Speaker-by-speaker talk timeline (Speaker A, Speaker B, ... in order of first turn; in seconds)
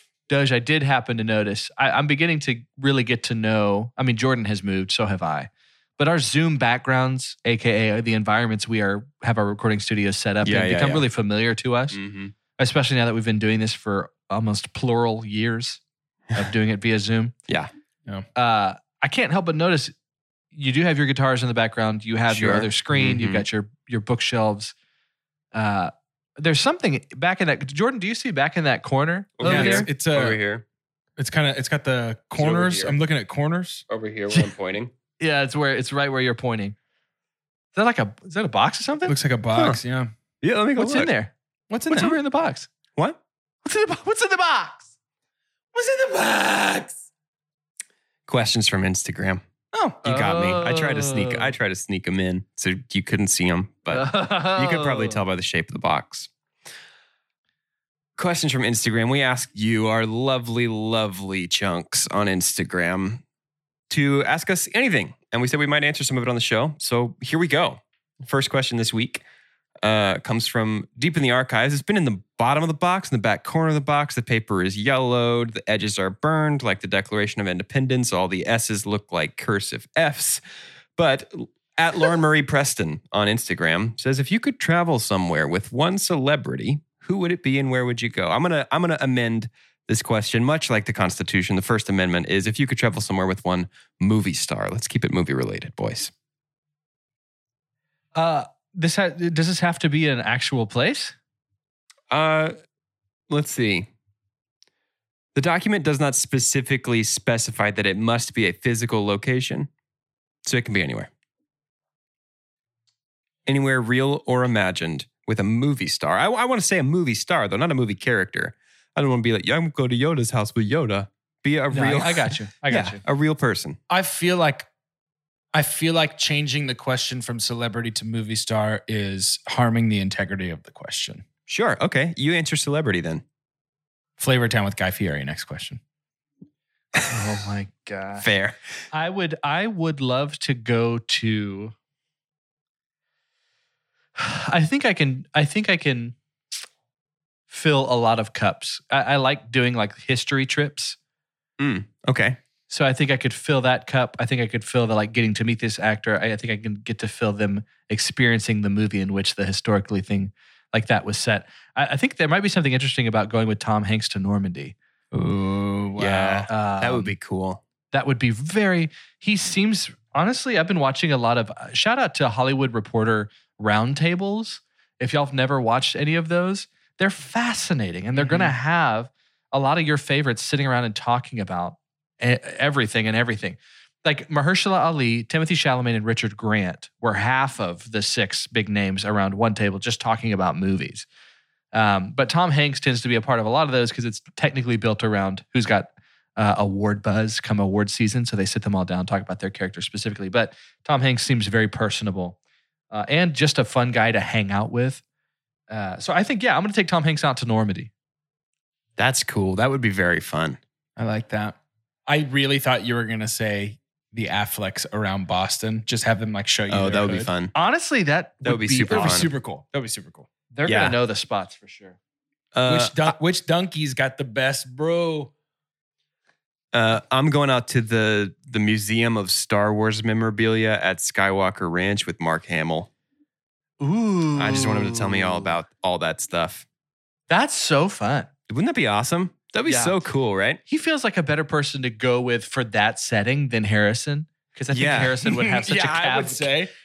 Speaker A: 0.3-12.0, 12.6-15.8, 16.3-17.3, 18.3-19.9, 20.5-24.7, 25.5-29.9, 35.2-36.8, 37.7-39.2, 40.8-41.3, 41.9-42.7, 43.6-44.9, 50.0-51.5, 53.9-55.2, 98.1-101.1, 121.7-123.0, 137.0-138.2, 138.9-141.7, 144.2-146.2, 147.5-151.0, 152.7-164.7, 166.0-167.1, 167.9-191.1, 191.7-202.4, 202.9-205.0, 205.7-207.9, 217.5-219.3, 220.5-222.0, 233.8-235.6, 237.3-238.3, 239.7-240.0, 240.7-246.6
Speaker B: 10.4-11.0, 11.9-12.3, 22.3-23.4, 29.4-30.6, 32.4-33.0, 33.9-34.9, 39.5-39.8, 40.4-41.1, 48.3-49.4, 50.0-56.3, 58.2-63.2, 63.9-69.2, 69.8-80.4, 81.0-96.1, 102.1-102.5, 103.3-103.9, 105.3-109.7, 110.4-111.1, 113.5-123.8, 131.5-133.2, 138.2-138.6, 151.6-152.4, 166.0-167.6, 209.0-210.6, 216.7-217.5, 218.4-219.3, 220.7-221.0, 222.5-223.1, 226.7-232.9, 234.3-236.6, 238.5-240.6, 244.7-245.2
Speaker C: 29.4-30.4, 31.2-33.8, 39.1-40.1, 41.7-42.1, 45.7-47.0, 123.9-124.7, 125.5-131.2, 134.2-135.8, 165.1-166.0, 178.2-178.5, 211.0-217.3, 218.9-220.3, 222.7-225.3, 245.3-246.7